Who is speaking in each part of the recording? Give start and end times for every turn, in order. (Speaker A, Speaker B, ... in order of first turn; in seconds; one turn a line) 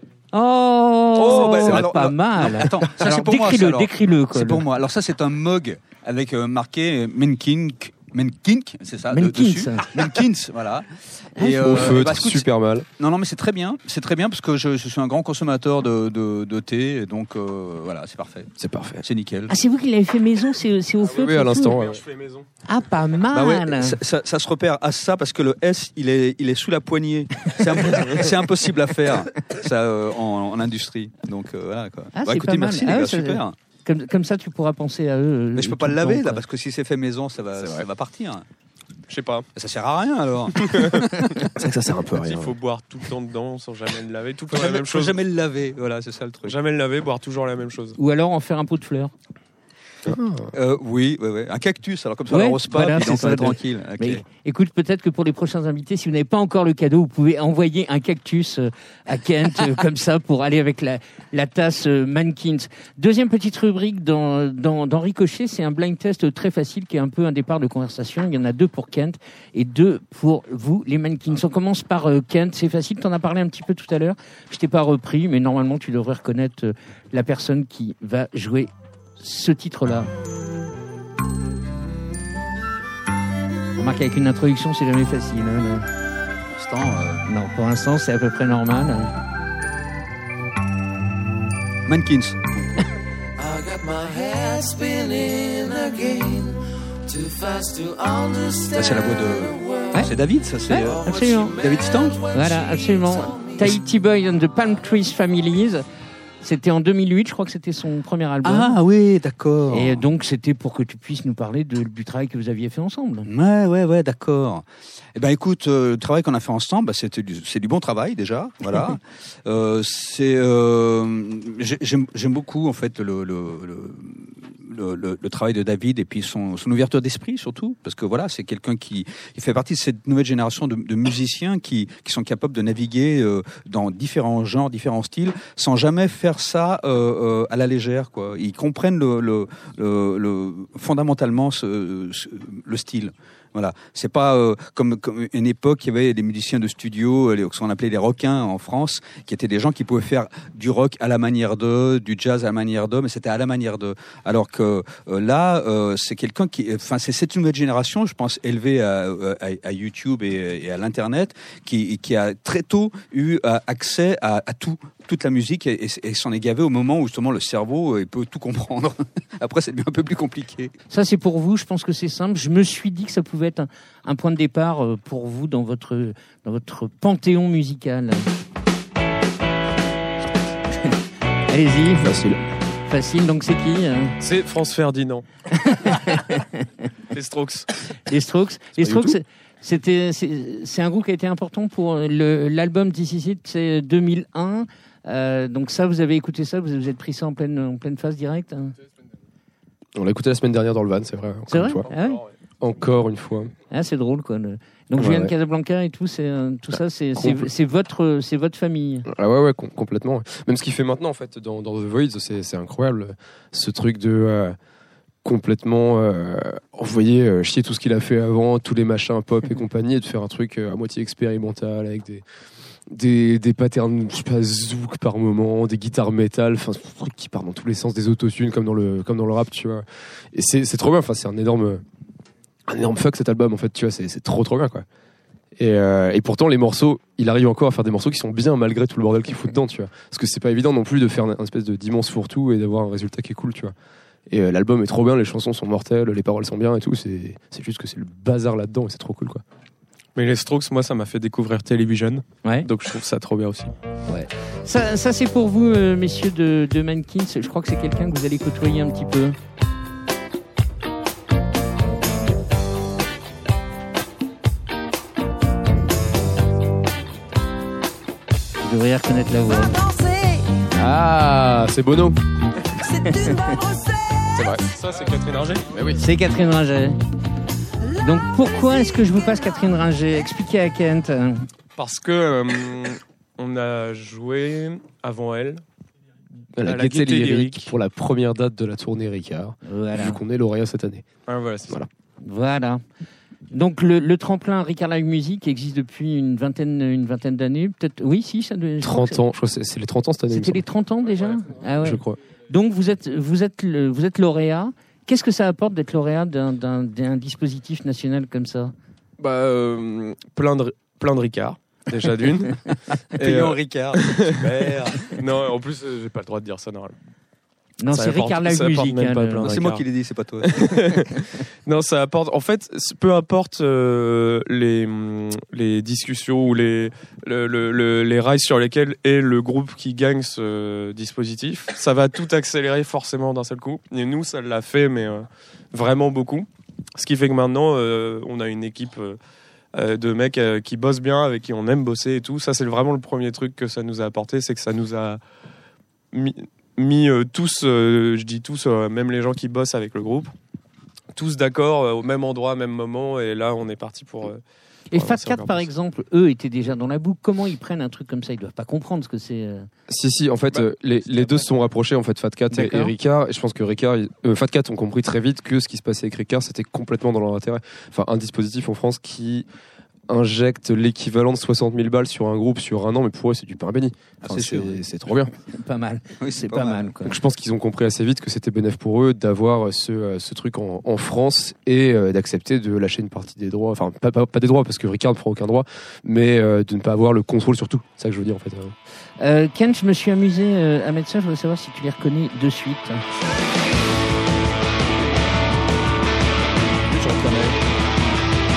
Speaker A: 0.3-4.6
Speaker B: 1.1-19.6
Speaker A: 9.1-10.2
Speaker A: 11.4-11.8
Speaker C: 11.6-12.8
Speaker C: 18.6-19.0
Speaker A: 19.5-21.8
Speaker D: 21.0-22.5
Speaker C: 21.2-22.0
Speaker A: 22.6-24.0
Speaker B: 23.3-33.5
Speaker A: 32.1-36.4
Speaker B: 35.5-38.4
Speaker C: 37.6-37.9
Speaker D: 39.1-39.5
Speaker B: 39.5-41.3
Speaker D: 40.7-41.1
Speaker C: 41.5-42.5
Speaker D: 42.1-45.2
Speaker B: 44.5-46.5
Speaker D: 46.4-48.0
Speaker A: 48.0-49.1
Speaker C: 50.0-50.5
Speaker B: 50.5-54.2
Speaker A: 52.3-80.1
Speaker A: 83.8-85.9
Speaker B: 86.5-87.2
Speaker A: 87.3-89.1
Speaker B: 91.8-92.5
Speaker E: 93.4-96.5
Speaker E: 97.1-98.7
Speaker B: 98.7-102.2
Speaker A: 100.7-101.5
Speaker E: 101.1-102.6
Speaker A: 102.3-105.8
Speaker A: 106.4-108.8
Speaker B: 108.4-110.0
Speaker A: 109.7-113.3
Speaker B: 113.2-170.7
Speaker A: 170.9-178.3
Speaker A: 180.6-181.0
Speaker A: 181.5-182.2
Speaker C: 182.0-182.4
Speaker A: 182.9-184.1
Speaker D: 184.2-185.3
Speaker A: 185.7-186.6
Speaker D: 187.1-187.7
Speaker A: 188.1-198.7
Speaker C: 188.8-189.2
Speaker C: 199.9-201.9
Speaker A: 201.5-202.2
Speaker D: 201.8-202.3
Speaker C: 202.6-203.5
Speaker A: 203.7-209.1
Speaker C: 205.0-205.3
Speaker C: 206.7-207.5
Speaker C: 209.1-214.6
Speaker C: 215.2-222.2
Speaker C: 222.9-231.8
Speaker C: 232.7-234.8
Speaker C: 235.6-243.7
Speaker C: 244.3-249.4
Speaker D: 250.1-253.8
Speaker A: 254.1-259.4
Speaker A: 268.6-269.8
Speaker C: 270.7-272.2
Speaker A: 273.0-273.6
Speaker C: 274.3-274.7
Speaker D: 274.6-275.9
Speaker C: 275.7-276.0
Speaker A: 276.0-277.0
Speaker A: 278.0-281.5
Speaker D: 281.8-285.6
Speaker C: 286.6-291.1
Speaker D: 286.6-287.7
Speaker A: 289.7-290.2
Speaker D: 291.2-291.8
Speaker A: 292.2-292.8
Speaker A: 293.5-299.2
Speaker C: 298.8-300.6
Speaker A: 300.3-308.7
Speaker C: 301.8-302.2
Speaker D: 309.2-312.6
Speaker D: 313.1-317.0
Speaker B: 313.2-315.2
Speaker A: 317.8-319.5
Speaker D: 317.9-319.8
Speaker B: 319.4-320.8
Speaker D: 320.4-339.2
Speaker D: 339.7-345.2
Speaker D: 346.1-350.3
Speaker D: 351.1-355.7
Speaker A: 354.9-359.7
Speaker C: 359.9-369.4
Speaker D: 360.5-361.4
Speaker A: 362.5-362.9
Speaker C: 370.1-375.3
Speaker B: 374.2-374.9
Speaker A: 375.5-377.2
Speaker B: 376.2-376.9
Speaker C: 377.0-388.7
Speaker A: 389.2-393.0
Speaker B: 396.9-397.6